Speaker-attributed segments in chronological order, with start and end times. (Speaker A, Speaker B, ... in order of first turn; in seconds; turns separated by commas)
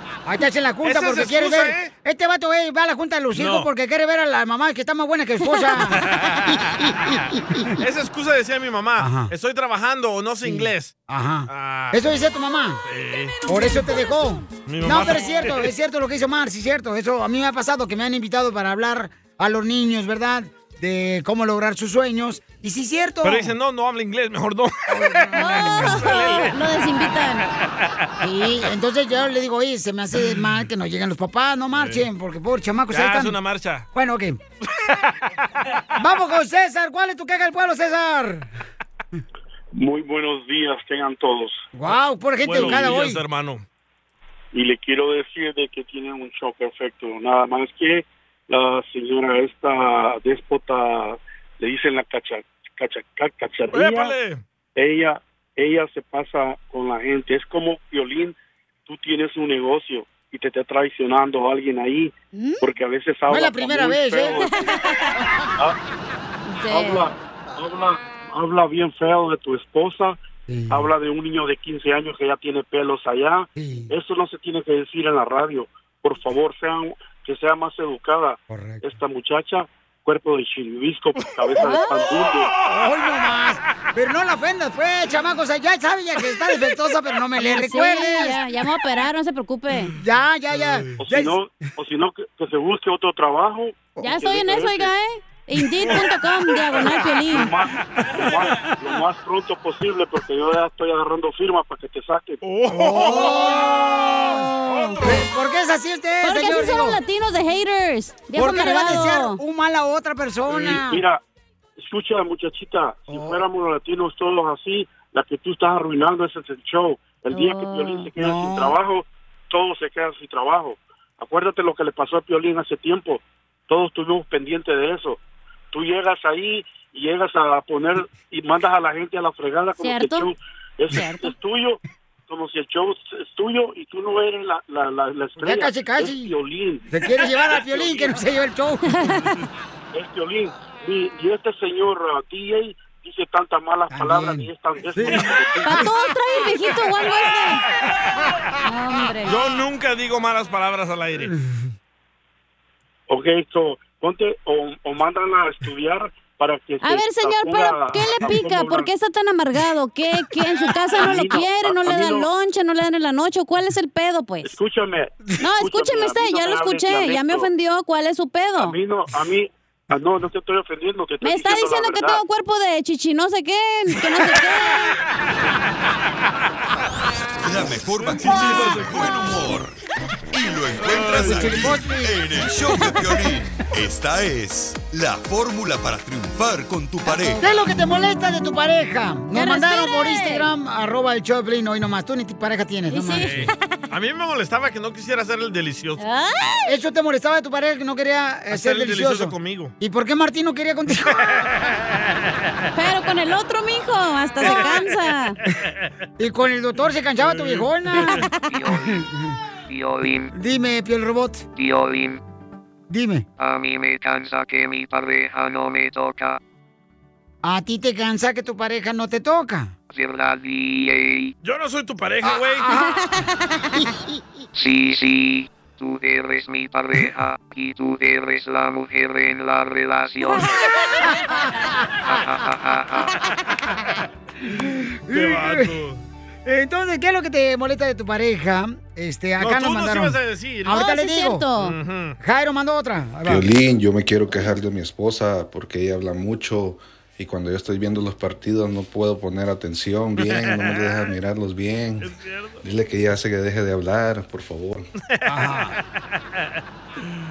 Speaker A: 0.2-6.0, Speaker B: 0.8-1.9, Speaker B: 3.4-3.7, Speaker B: 5.9-10.9, Speaker A: 9.0-9.3, Speaker A: 10.4-12.8, Speaker B: 11.5-12.0, Speaker B: 12.8-13.4, Speaker A: 13.5-23.5, Speaker B: 14.7-15.7, Speaker B: 23.2-26.6, Speaker A: 24.9-26.0, Speaker C: 25.4-27.5, Speaker B: 27.6-28.1, Speaker A: 28.2-33.4, Speaker B: 31.7-32.1, Speaker B: 32.9-33.9, Speaker A: 33.9-34.4, Speaker B: 34.8-35.1, Speaker A: 36.0-38.5, Speaker D: 39.8-41.6, Speaker A: 41.8-43.2, Speaker B: 41.9-43.6, Speaker D: 44.5-54.1, Speaker B: 53.7-54.4, Speaker D: 54.8-58.4, Speaker D: 58.9-64.5, Speaker C: 62.3-62.6, Speaker A: 63.3-64.4, Speaker C: 64.4-65.1, Speaker C: 66.5-67.1, Speaker D: 66.7-70.2, Speaker A: 70.5-70.9, Speaker D: 70.7-82.5, Speaker A: 73.5-73.9, Speaker A: 78.5-78.8, Speaker C: 81.6-82.1, Speaker A: 82.7-88.4, Speaker C: 87.4-90.0, Speaker A: 90.0-91.4, Speaker D: 91.0-94.9, Speaker C: 94.0-97.5, Speaker B: 95.8-98.7, Speaker D: 97.3-102.4, Speaker B: 102.4-105.3, Speaker A: 102.7-107.0, Speaker C: 106.2-109.4, Speaker A: 108.3-111.0, Speaker B: 110.5-110.8, Speaker D: 110.6-111.2, Speaker D: 111.8-125.2, Speaker A: 113.1-113.5, Speaker C: 117.3-118.1, Speaker A: 118.2-118.7, Speaker D: 125.7-136.9, Speaker C: 129.8-130.3, Speaker C: 130.9-131.3, Speaker A: 135.4-136.3, Speaker A: 136.9-139.0, Speaker D: 137.5-138.0, Speaker C: 138.9-139.5, Speaker D: 139.9-145.9, Speaker A: 143.9-145.9, Speaker B: 145.0-145.4, Speaker C: 145.6-147.6, Speaker C: 148.6-149.6, Speaker B: 149.2-151.3, Speaker A: 151.3-151.6, Speaker D: 153.1-158.9, Speaker C: 156.8-164.6, Speaker D: 160.7-162.3, Speaker D: 164.4-167.5, Speaker C: 165.4-168.8, Speaker D: 168.6-172.2, Speaker C: 171.2-175.0, Speaker E: 177.4-179.8, Speaker B: 178.2-179.0, Speaker E: 180.3-187.4, Speaker B: 180.8-181.8, Speaker A: 181.2-182.2, Speaker A: 187.4-193.4, Speaker C: 189.3-190.5, Speaker C: 192.9-193.6, Speaker B: 193.2-196.0, Speaker C: 196.0-196.7, Speaker A: 196.7-201.5, Speaker B: 198.5-199.7, Speaker B: 201.1-202.3, Speaker C: 202.8-205.4, Speaker B: 204.4-205.0, Speaker A: 206.2-208.3, Speaker B: 207.2-207.7, Speaker C: 207.9-208.5, Speaker F: 208.5-209.0, Speaker A: 208.8-209.4, Speaker F: 209.7-210.3, Speaker A: 210.3-211.4, Speaker F: 211.6-212.2, Speaker A: 212.9-213.3, Speaker F: 213.4-216.4, Speaker A: 217.4-219.7, Speaker F: 219.9-221.3, Speaker B: 221.4-222.7, Speaker A: 222.2-223.0, Speaker C: 223.0-223.8, Speaker F: 224.6-230.7, Speaker C: 230.4-231.5, Speaker A: 231.0-232.2, Speaker F: 232.1-233.2, Speaker A: 234.5-235.8, Speaker B: 235.1-236.0, Speaker A: 236.5-241.5, Speaker B: 239.4-240.8, Speaker C: 240.7-241.8, Speaker B: 241.6-242.2, Speaker A: 242.2-243.5, Speaker G: 243.3-252.1, Speaker B: 250.2-251.1, Speaker B: 252.0-252.6, Speaker G: 252.6-254.9, Speaker B: 255.1-256.6, Speaker A: 255.2-255.8